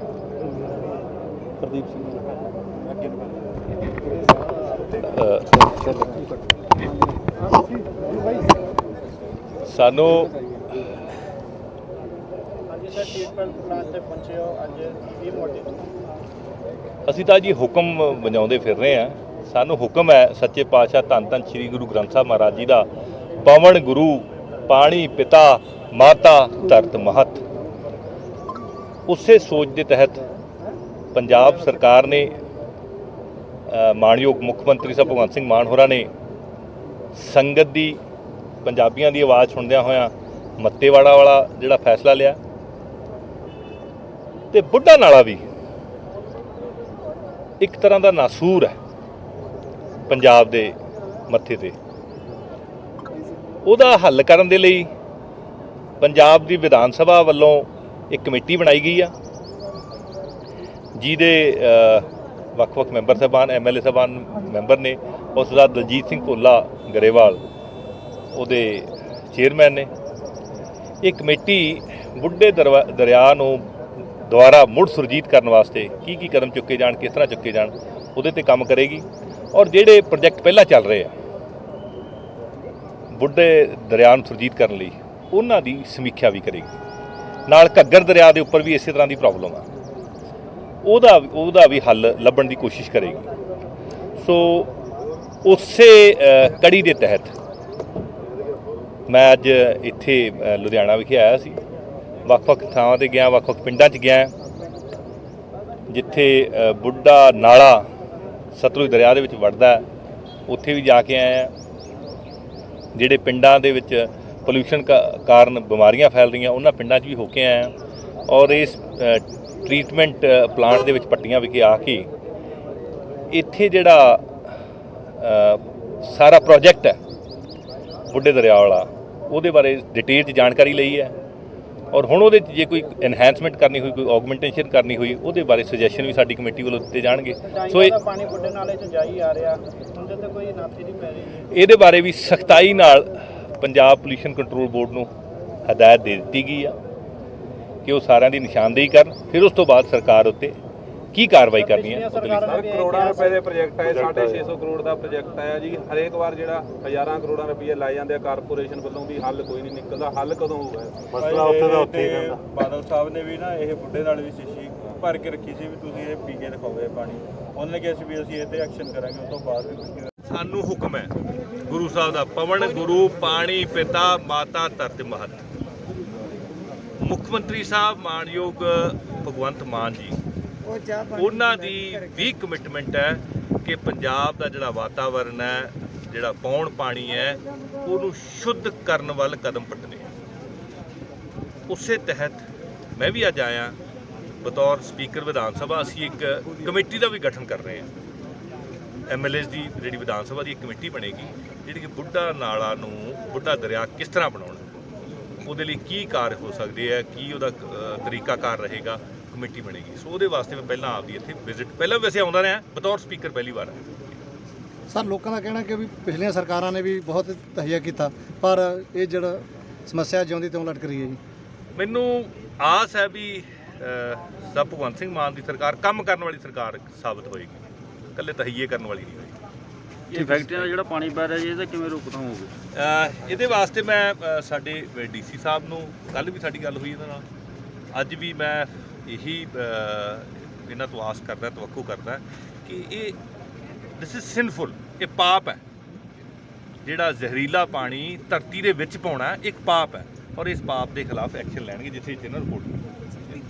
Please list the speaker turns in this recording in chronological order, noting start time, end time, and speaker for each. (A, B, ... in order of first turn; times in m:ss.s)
0:01.6-0:02.2 A
0:05.0-0:05.6 B
0:09.7-0:10.3 B
0:12.7-0:15.8 C
0:17.1-0:22.9 B
0:23.4-0:27.4 B
0:29.1-0:30.2 B
0:31.1-0:32.3 B
0:33.7-0:36.1 B
0:37.2-0:38.0 B
0:38.6-0:42.4 B
0:44.5-0:45.4 B
0:47.6-0:48.7 B
0:50.1-0:50.7 B
0:51.3-0:51.7 B
0:53.6-0:54.9 B
0:56.0-0:59.1 B
1:01.0-1:07.4 B
1:08.3-1:09.9 B
1:11.0-1:13.6 B
1:14.2-1:21.1 B
1:23.1-1:26.8 B
1:27.5-1:29.6 B
1:30.8-1:33.3 B
1:34.2-1:34.7 B
1:35.4-1:37.3 B
1:39.1-1:41.6 B
1:42.2-1:44.3 B
1:45.9-1:47.8 B
1:48.5-1:49.8 B
1:50.5-1:51.5 B
1:53.0-1:57.7 B
1:58.3-2:02.1 B
2:03.3-2:04.3 B
2:05.2-2:07.0 B
2:08.1-2:11.2 B
2:11.9-2:18.0 B
2:17.5-2:21.4 C
2:21.5-2:25.1 B
2:25.7-2:26.7 B
2:27.8-2:30.6 B
2:31.1-2:32.6 B
2:31.6-2:33.4 C
2:32.4-2:42.4 D
2:41.2-2:50.1 A
2:50.3-2:51.1 B
2:51.7-2:55.4 B
2:57.0-3:00.2 B
3:01.1-3:10.1 B
3:11.7-3:12.4 B
3:13.0-3:13.8 B
3:14.4-3:17.9 B
3:19.1-3:24.6 B
3:25.4-3:33.8 B
3:34.9-3:41.2 E
3:41.7-3:47.6 B
3:48.1-3:49.3 B
3:50.1-3:50.8 B
3:50.1-3:52.5 F
3:52.7-3:57.2 B
3:57.9-4:03.2 B
4:04.0-4:05.6 B
4:06.8-4:12.8 B